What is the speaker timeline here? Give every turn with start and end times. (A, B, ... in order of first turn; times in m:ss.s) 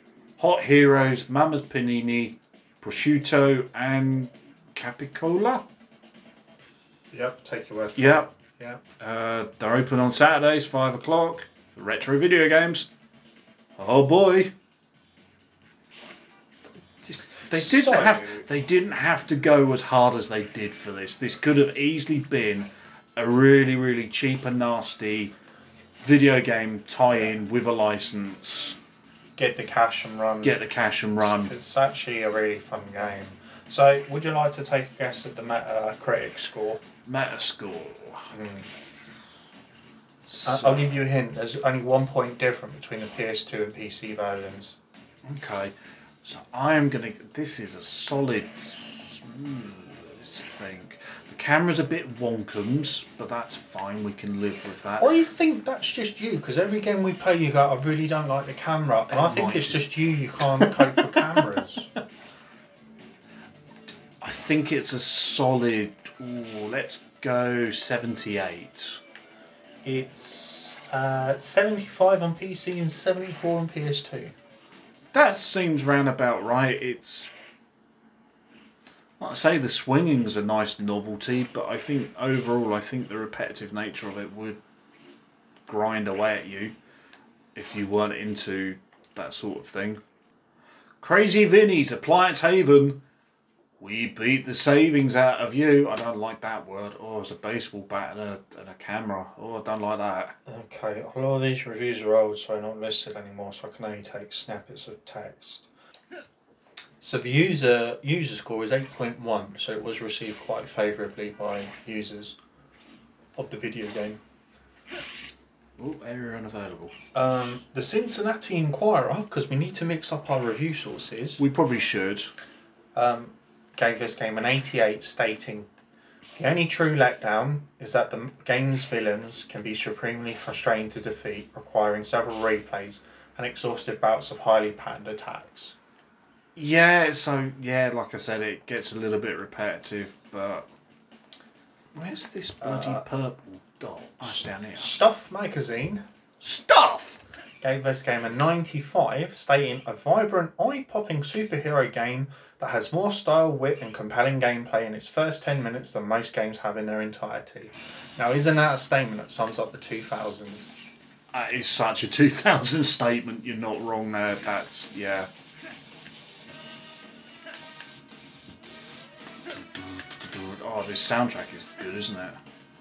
0:00.4-0:05.6 A
0:07.1-0:08.8 B
0:08.0-0:08.3 A
0:09.0-0:12.9 A
0:13.8-0:14.5 A
0:17.0-0:25.3 A
0:17.3-0:18.5 B
0:26.0-0:28.8 A
0:27.1-0:27.4 B
0:29.4-0:30.6 B
0:30.4-0:31.5 A
0:31.2-0:36.8 B
0:37.1-0:38.4 A
0:38.3-0:38.7 B
0:40.3-0:40.9 A
0:40.4-0:44.8 B
0:45.2-0:55.1 A
0:55.0-1:01.9 B
0:59.1-1:01.5 A
1:04.2-1:09.0 A
1:09.8-1:14.3 B
1:15.1-1:17.3 A
1:19.2-1:24.6 A
1:25.7-1:26.7 A
1:27.6-1:30.0 A
1:31.0-1:33.0 A
1:33.8-1:40.4 A
1:40.5-1:45.7 B
1:47.0-1:52.4 B
1:53.4-1:54.2 B
1:55.8-1:56.9 A
1:57.1-2:01.4 B
2:01.4-2:02.3 A
2:03.0-2:05.7 B
2:06.4-2:15.8 B
2:16.6-2:20.7 A
2:22.0-2:25.0 A
2:22.6-2:23.0 B
2:24.2-2:26.0 B
2:26.4-2:27.2 A
2:27.6-2:40.8 B
2:41.3-2:45.3 A
2:49.5-2:52.4 A